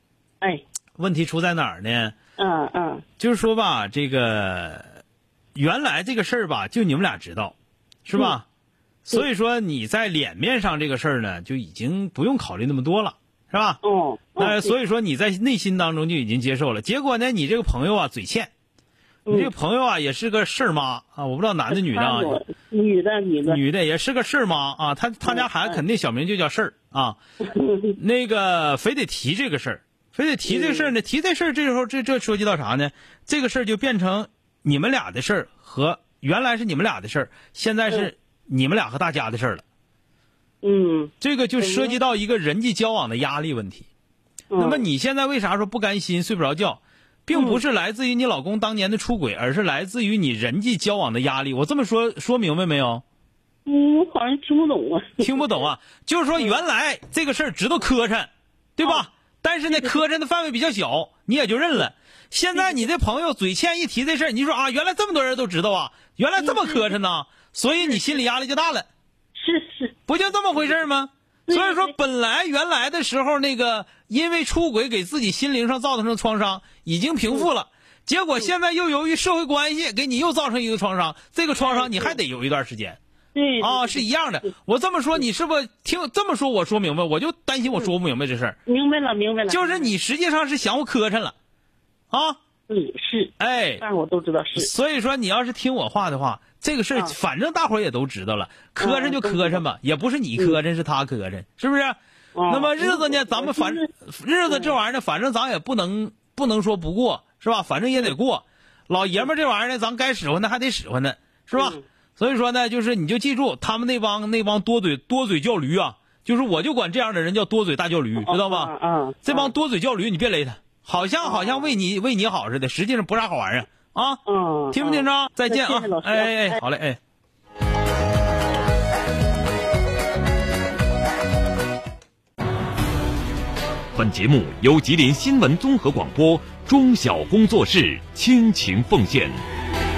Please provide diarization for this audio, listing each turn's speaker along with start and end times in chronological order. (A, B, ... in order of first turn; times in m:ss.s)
0:01.0-0:02.2 A
0:02.4-0:03.0 B
0:03.2-0:04.9 A
0:05.6-0:08.4 A
0:08.1-0:08.4 B
0:09.1-0:13.8 A
0:13.8-0:14.8 B
0:14.4-0:18.5 A
0:19.3-0:19.5 B
0:19.3-0:22.4 A
0:21.7-0:23.6 B
0:23.5-0:27.2 A
0:25.2-0:25.8 B
0:27.4-0:28.0 B
0:28.0-0:39.6 A
0:30.4-0:30.9 B
0:40.6-0:42.0 B
0:41.2-0:43.9 A
0:44.5-0:44.8 B
0:44.6-0:53.0 A
0:47.3-0:47.6 B
0:53.6-0:55.6 B
0:55.2-1:08.9 A
0:58.8-0:59.1 B
0:59.7-1:00.0 B
1:02.5-1:02.9 B
1:06.4-1:07.0 B
1:09.4-1:10.0 B
1:10.1-1:23.0 A
1:10.5-1:10.8 B
1:11.5-1:11.9 B
1:21.6-1:22.2 B
1:23.3-1:24.5 B
1:23.6-1:28.6 A
1:28.7-1:29.9 B
1:29.5-1:31.4 A
1:32.1-1:32.4 A
1:32.7-1:34.7 B
1:33.4-1:33.8 A
1:34.6-1:42.0 A
1:38.8-1:39.6 B
1:42.4-1:43.9 B
1:42.5-1:58.7 A
1:44.5-1:44.8 B
1:51.5-1:51.8 B
1:58.2-1:59.5 B
1:59.2-2:07.0 A
2:01.2-2:01.8 B
2:04.3-2:06.6 B
2:13.9-2:19.4 C